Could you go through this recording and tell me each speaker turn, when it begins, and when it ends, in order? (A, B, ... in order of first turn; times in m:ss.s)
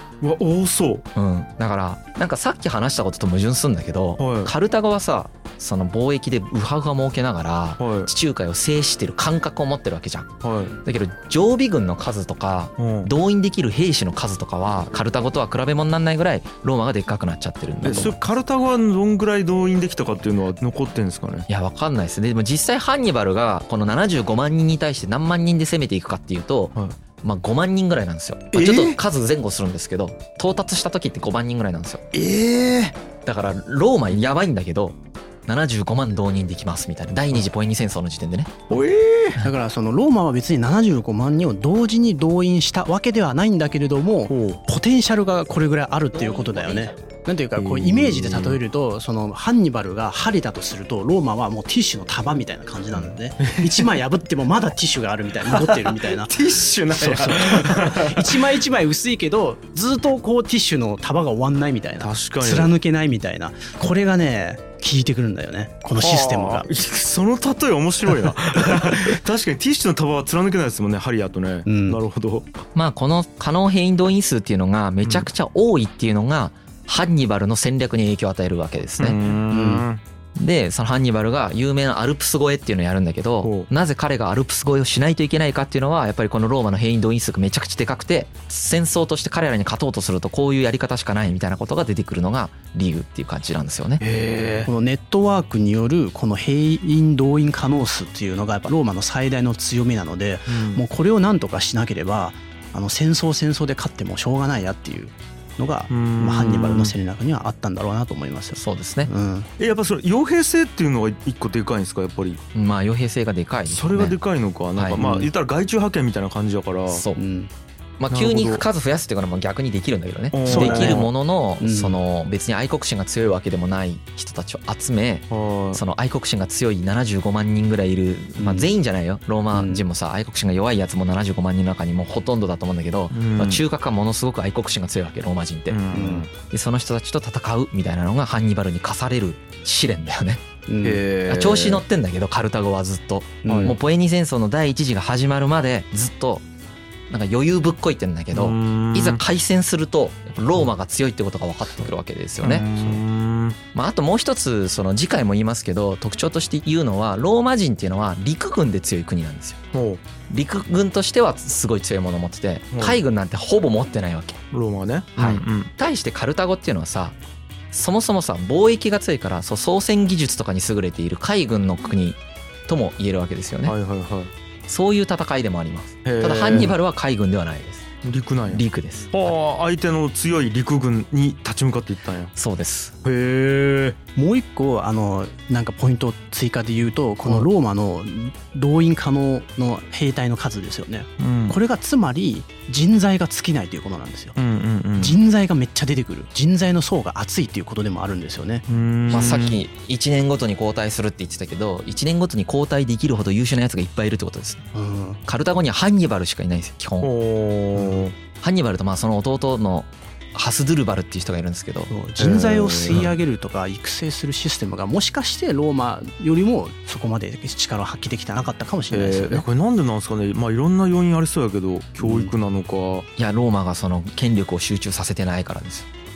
0:00.2-0:01.0 A
0:01.1-0:10.3 B
0:04.2-0:04.5 A
0:07.8-0:08.1 A
0:10.4-0:10.8 A
0:10.8-0:18.1 B
0:12.8-0:13.1 A
0:17.8-0:21.5 A
0:21.5-0:32.0 B
0:28.5-0:29.0 A
0:32.1-0:33.0 A
0:33.2-0:38.7 B
0:38.7-0:39.4 A
0:39.4-0:56.4 C
0:44.3-0:44.6 A
0:46.1-0:47.0 B
0:47.6-0:48.6 A
0:53.0-0:54.0 A
0:55.5-0:58.6 A
0:56.9-1:06.7 C
1:02.0-1:02.7 A
1:06.0-1:12.6 A
1:11.6-1:12.0 C
1:12.7-1:19.2 B
1:19.0-1:20.0 A
1:19.5-1:19.8 C
1:20.4-1:34.0 B
1:23.4-1:23.7 A
1:34.0-1:34.7 A
1:34.6-1:49.5 C
1:40.5-1:40.8 A
1:45.9-1:46.9 A
1:48.6-1:49.1 B
1:49.6-1:52.4 A
1:52.5-1:54.2 B
1:53.7-1:57.0 A
1:54.7-1:55.0 B
1:55.0-1:55.3 C
1:56.9-1:57.2 B
1:57.2-1:57.5 C
1:58.0-2:15.8 B
1:58.1-1:58.6 A
2:00.3-2:01.1 A
2:00.5-2:01.1 C
2:01.6-2:02.0 C
2:05.3-2:05.8 A
2:08.4-2:08.7 C
2:09.5-2:09.8 C
2:13.1-2:13.6 A
2:15.7-2:16.3 A
2:15.9-2:16.3 C
2:16.4-2:20.4 B
2:20.7-2:21.0 C
2:20.8-2:21.8 A
2:21.3-2:26.4 B
2:23.4-2:23.7 C
2:23.5-2:23.7 A
2:27.1-2:32.7 B
2:28.3-2:29.2 A
2:32.4-2:33.6 A
2:33.7-2:39.6 B
2:39.7-2:40.0 A
2:40.3-2:44.4 B
2:42.7-2:43.0 A
2:44.5-2:45.7 A
2:45.2-2:47.2 B
2:47.7-2:53.7 B
2:53.7-2:54.3 A
2:54.7-2:57.9 B
2:56.0-2:56.7 A
2:58.0-3:02.3 A
2:58.5-2:59.3 B
3:02.4-3:02.9 B
3:03.0-3:04.0 A
3:04.2-3:14.4 C
3:11.2-3:11.6 A
3:14.4-3:15.2 A
3:15.0-3:18.6 C
3:18.7-3:19.6 A
3:19.1-3:24.6 B
3:24.7-3:25.2 C
3:25.2-3:27.1 B
3:27.0-3:28.1 A
3:27.8-3:28.0 C
3:28.4-3:31.9 B
3:31.9-3:39.4 C
3:32.2-3:33.1 A
3:38.9-3:43.1 A
3:42.0-3:42.3 C
3:43.2-3:45.9 B